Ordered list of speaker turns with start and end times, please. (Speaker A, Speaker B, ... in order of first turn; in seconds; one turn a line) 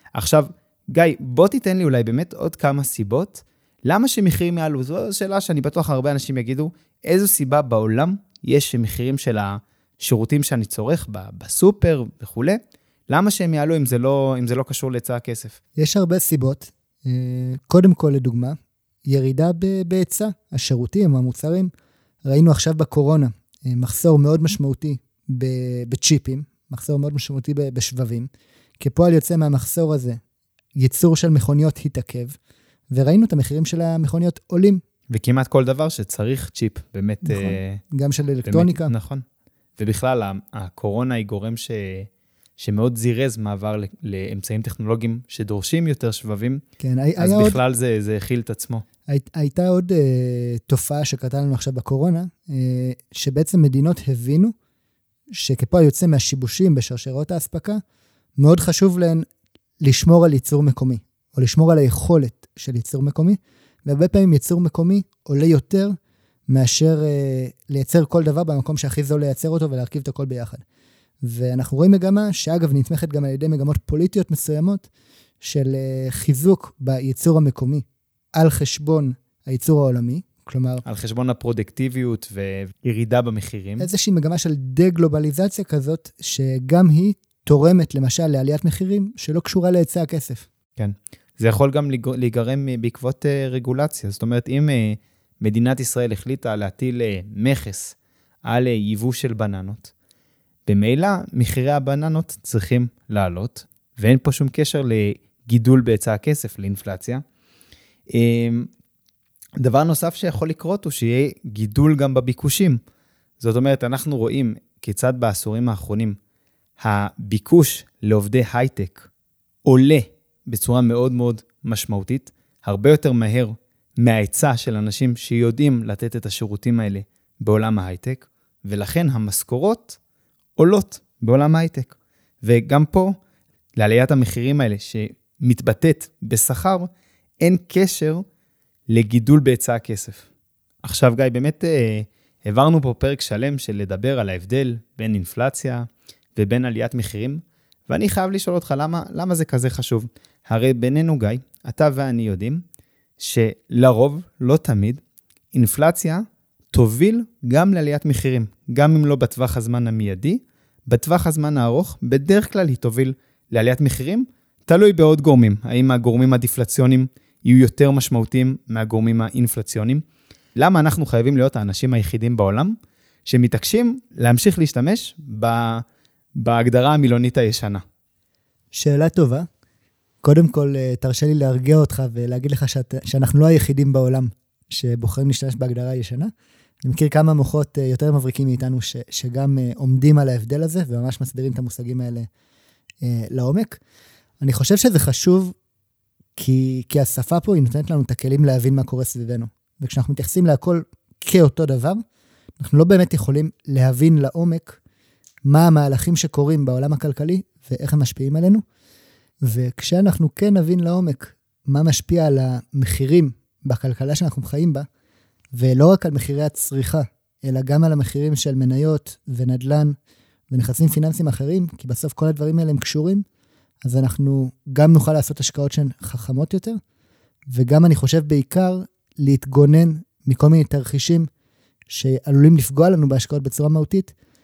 Speaker A: 0.1-15.6
Speaker B: 15.8-21.7
Speaker B: 22.2-30.2
Speaker B: 30.8-32.4
Speaker B: 32.9-34.8
Speaker A: 35.1-37.8
Speaker B: 37.2-38.9
Speaker A: 38.4-39.2
Speaker A: 39.8-46.6
Speaker B: 46.8-47.6
Speaker A: 47.2-48.8
Speaker B: 49.1-54.5
Speaker B: 55.3-57.8
Speaker B: 58.4-59.2
Speaker B: 59.8-66.0
Speaker B: 66.5-70.6
Speaker B: 71.2-74.9
Speaker B: 75.4-77.8
Speaker B: 78.3-80.8
Speaker A: 80.8-83.9
Speaker B: 83.8-90.5
Speaker A: 90.8-99.9
Speaker A: 100.7-107.2
Speaker A: 108.1-108.7
Speaker A: 109.6-112.8
Speaker A: 113.4-116.2
Speaker A: 116.8-119.1
Speaker A: 119.6-130.0
Speaker A: 130.6-133.2
Speaker A: 133.8-136.9
Speaker A: 137.4-138.2
Speaker A: 138.9-140.3
Speaker A: 140.8-145.8
Speaker A: 146.3-152.6
Speaker A: 153.2-155.0
Speaker A: 155.5-170.0
Speaker A: 170.6-175.8
Speaker A: 176.3-177.8
Speaker B: 178.7-179.5
Speaker B: 180.2-186.3
Speaker B: 186.8-192.3
Speaker B: 193.0-193.8
Speaker B: 194.4-195.5
Speaker B: 196.3-202.0
Speaker B: 202.6-204.8
Speaker B: 205.4-208.6
Speaker B: 209.4-214.8
Speaker B: 215.5-219.9
Speaker B: 220.5-223.2
Speaker B: 223.8-226.8
Speaker B: 227.5-231.3
Speaker B: 231.9-234.1